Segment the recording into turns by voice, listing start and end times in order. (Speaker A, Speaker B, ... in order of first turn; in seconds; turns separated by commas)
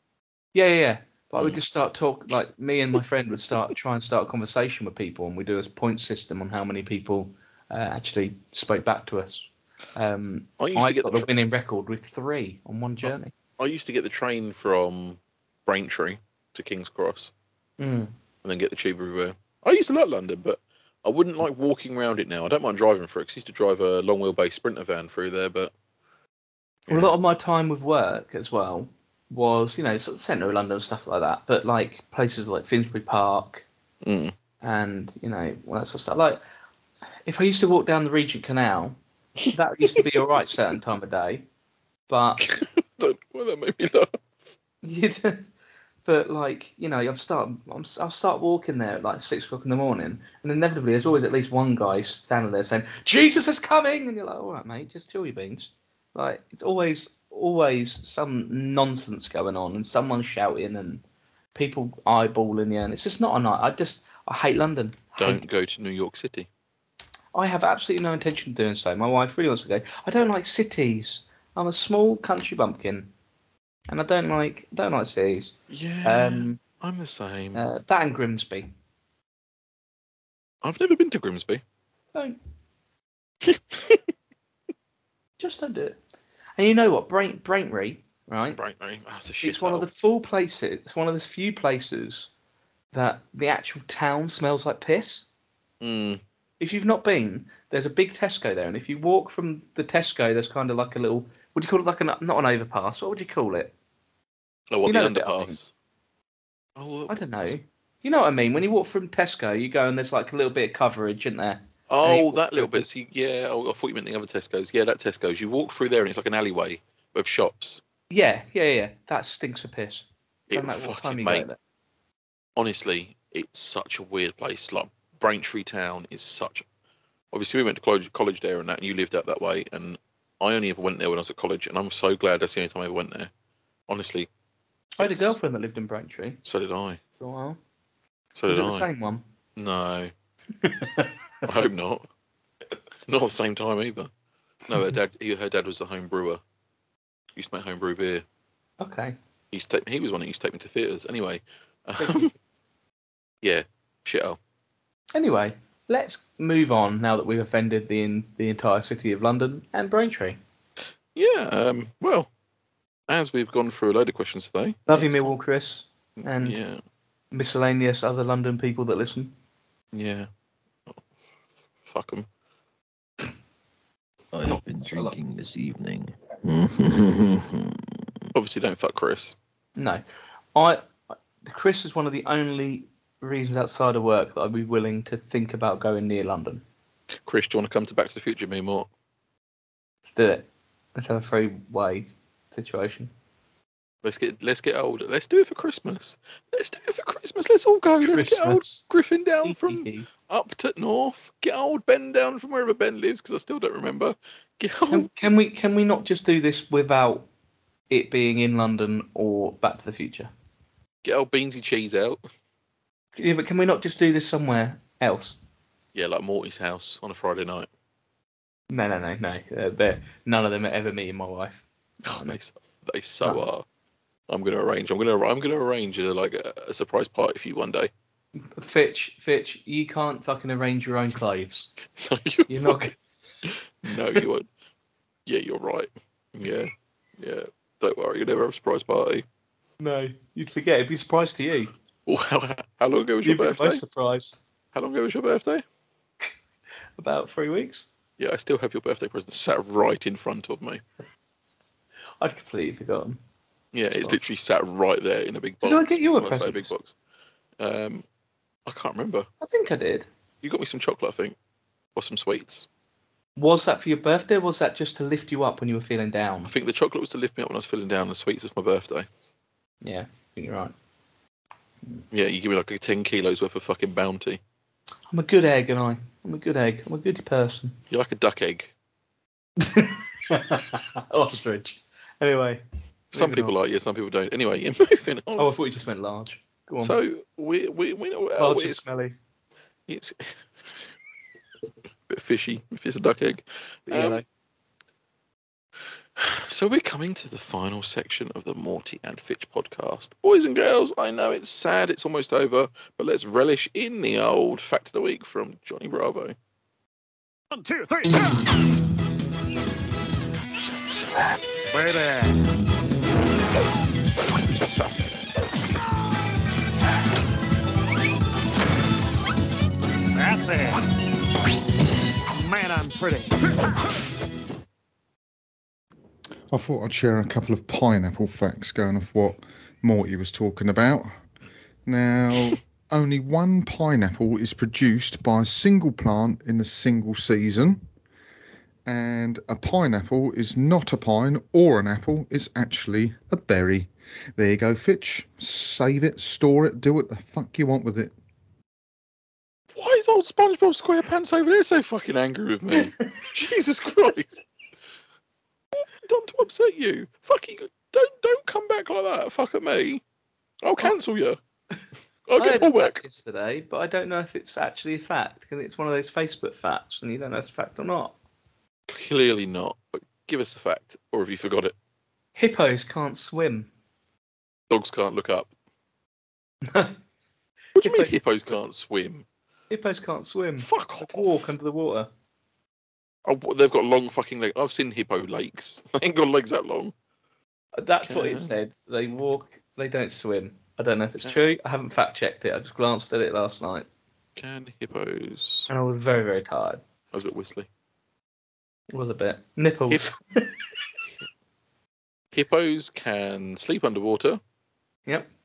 Speaker A: 0.5-13.3, Speaker B: 10.6-11.3, Speaker B: 13.0-17.3, Speaker A: 17.8-18.1, Speaker B: 18.4-25.7, Speaker B: 26.9-27.1, Speaker A: 26.9-33.6, Speaker B: 34.0-34.3, Speaker A: 34.6-36.4, Speaker A: 37.2-39.0, Speaker B: 39.4-40.0, Speaker A: 39.5-41.4, Speaker A: 42.1-42.4, Speaker B: 42.4-44.2, Speaker A: 44.8-45.5, Speaker A: 46.0-61.0, Speaker A: 61.5-65.4, Speaker B: 65.2-66.5, Speaker A: 67.3-73.1, Speaker A: 73.9-76.6, Speaker B: 75.7-77.6, Speaker A: 77.5-78.7, Speaker B: 80.6-81.6, Speaker B: 83.4-84.0, Speaker A: 85.4-86.0, Speaker A: 86.6-88.6, Speaker B: 88.5-89.9, Speaker A: 89.4-92.3, Speaker A: 92.9-95.3, Speaker B: 95.8-96.2, Speaker A: 96.6-103.7, Speaker B: 104.7-105.7, Speaker A: 104.8-105.6, Speaker B: 106.8-107.5, Speaker A: 107.1-112.9, Speaker B: 111.9-117.8, Speaker A: 118.1-121.6, Speaker B: 120.5-121.5, Speaker B: 122.5-126.7, Speaker B: 127.3-133.3, Speaker B: 133.9-134.3, Speaker A: 135.0-136.4, Speaker B: 135.0-135.3, Speaker B: 136.4-137.0, Speaker A: 137.2-137.6, Speaker B: 138.3-138.9, Speaker A: 138.5-139.2, Speaker B: 139.6-140.1, Speaker A: 140.6-141.2, Speaker B: 141.4-142.1, Speaker B: 143.1-144.1, Speaker B: 144.7-146.4, Speaker B: 147.3-148.2, Speaker A: 148.8-149.2, Speaker B: 149.5-152.3, Speaker A: 152.0-152.3, Speaker B: 153.4-154.4, Speaker A: 155.1-160.4, Speaker B: 161.1-162.3, Speaker B: 163.1-165.3, Speaker A: 164.9-166.6, Speaker B: 166.2-166.8, Speaker A: 167.3-169.3, Speaker B: 169.9-170.3, Speaker B: 171.8-172.3, Speaker C: 174.3-177.8, Speaker B: 178.3-179.3, Speaker A: 179.8-180.0, Speaker A: 180.5-186.6, Speaker B: 187.2-188.9, Speaker A: 190.1-193.1, Speaker B: 194.0-205.1, Speaker A: 198.0-198.8, Speaker A: 199.4-200.1, Speaker A: 204.9-207.3, Speaker A: 207.9-210.3, Speaker B: 211.0-212.2, Speaker A: 213.2-215.4, Speaker B: 215.9-217.7, Speaker A: 218.7-222.4, Speaker B: 222.0-223.6, Speaker B: 224.3-227.9, Speaker A: 228.6-231.7, Speaker B: 231.9-232.8, Speaker A: 232.5-232.9, Speaker B: 233.4-234.5, Speaker B: 235.2-239.2, Speaker A: 239.8-241.7, Speaker B: 242.1-243.8, Speaker A: 243.2-244.4, Speaker B: 244.7-245.6, Speaker A: 247.0-247.9, Speaker B: 248.2-250.8, Speaker A: 252.2-253.2, Speaker B: 253.7-256.9, Speaker A: 253.9-254.2, Speaker A: 255.6-256.7, Speaker B: 257.6-258.0, Speaker B: 258.6-259.3, Speaker A: 259.4-260.1, Speaker B: 260.4-261.4, Speaker B: 261.9-262.7, Speaker A: 263.4-266.5, Speaker B: 266.4-269.1, Speaker A: 269.8-270.7, Speaker B: 272.1-274.4, Speaker A: 275.1-277.8, Speaker B: 277.9-278.7, Speaker A: 279.6-283.5, Speaker B: 283.1-285.5, Speaker A: 285.4-287.0, Speaker B: 286.8-288.8, Speaker A: 288.4-289.1, Speaker B: 289.9-290.8, Speaker B: 292.1-294.2, Speaker A: 293.9-294.2, Speaker B: 296.1-306.4, Speaker D: 307.5-308.4, Speaker D: 311.7-312.4, Speaker B: 314.5-315.2, Speaker D: 319.9-320.8, Speaker D: 322.3-323.4, Speaker E: 326.5-331.1, Speaker E: 331.9-337.8, Speaker E: 338.9-348.1, Speaker B: 349.7-354.4, Speaker B: 355.7-360.0, Speaker B: 360.6-361.4, Speaker B: 362.3-363.0, Speaker A: 362.4-368.1, Speaker B: 368.9-371.7, Speaker A: 372.4-373.7, Speaker B: 374.7-375.5, Speaker A: 376.7-376.9, Speaker B: 377.7-379.2, Speaker A: 377.8-378.6, Speaker A: 379.7-382.1, Speaker B: 380.6-381.3, Speaker B: 383.2-386.9, Speaker A: 387.8-393.9, Speaker B: 388.0-388.5, Speaker B: 394.4-395.7, Speaker A: 395.7-396.8, Speaker B: 397.1-397.7, Speaker A: 398.9-400.5, Speaker B: 402.3-404.4